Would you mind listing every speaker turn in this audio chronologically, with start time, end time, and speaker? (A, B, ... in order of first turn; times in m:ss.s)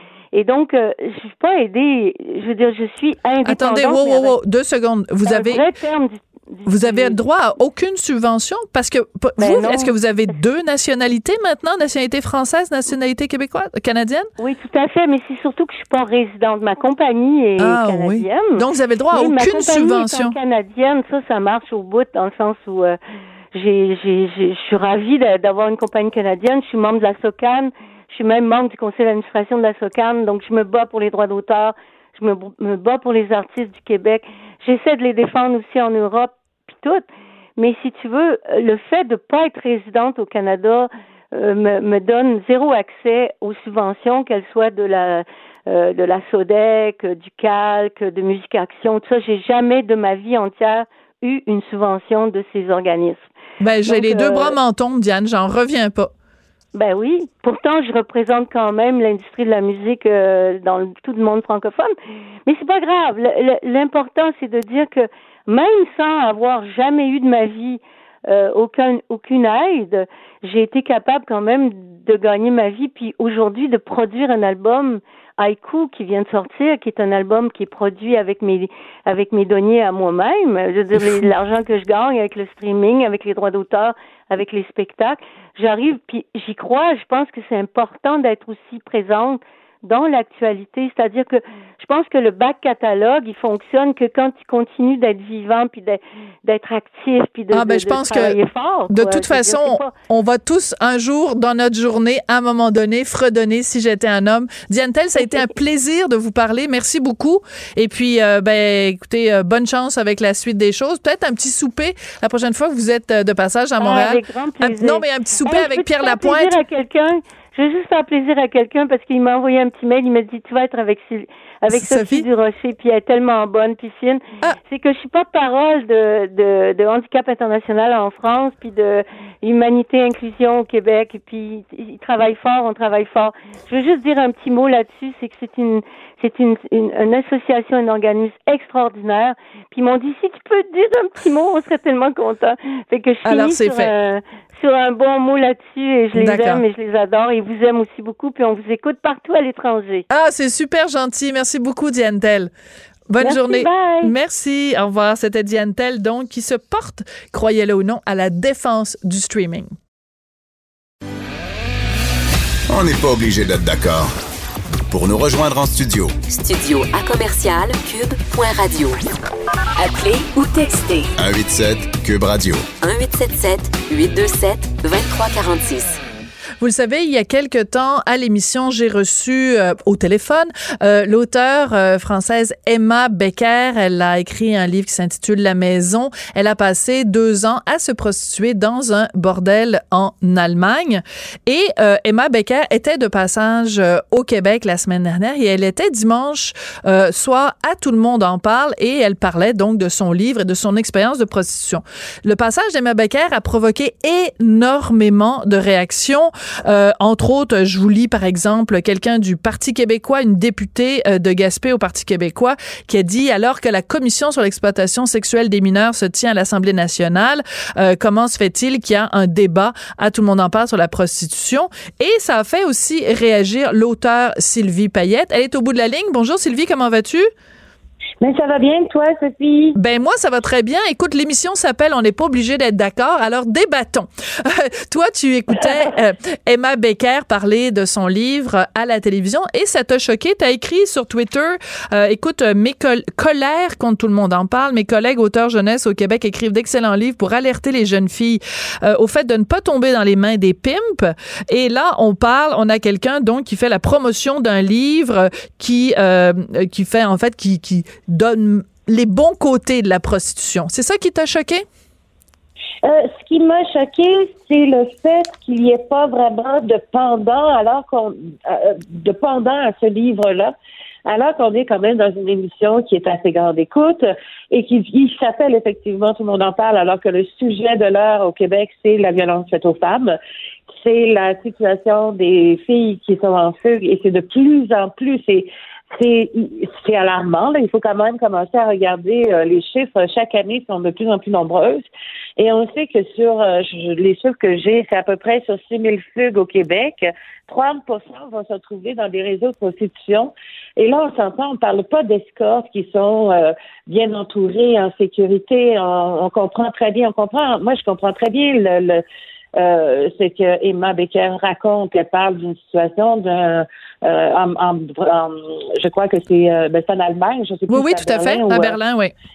0:00.3-0:04.4 A
0:03.4-0:05.6 B
0:05.2-0:07.2 A
0:06.6-0:14.3 B
0:09.4-0:09.9 A
0:14.4-0:23.0 A
0:17.6-0:20.4 B
0:23.5-0:37.0 A
0:37.6-0:53.2 A
0:53.6-0:56.1 B
0:53.9-0:54.6 A
0:56.7-1:01.9 A
1:02.5-1:39.9 A
1:37.5-1:38.4 B
1:38.9-1:56.6 B
1:53.8-2:30.0 A
2:01.7-2:02.2 B
2:23.2-2:23.9 B
2:26.2-2:26.6 B
2:30.1-2:32.5 B
2:33.1-2:39.7 B
2:33.2-2:34.1 A
2:42.7-2:44.1 C
2:44.9-2:46.2 C
2:46.3-2:49.1 D
2:49.8-2:51.1 D
2:51.2-2:52.7 C
2:52.8-2:56.0 D
2:56.6-3:47.3 B
3:48.2-3:49.8 E
3:49.7-4:21.6 B
4:22.8-4:30.5 E
4:31.1-4:40.2 E
4:40.7-4:51.9 E
4:52.4-5:09.0 E
5:09.6-5:18.8 E
5:17.7-5:19.1 B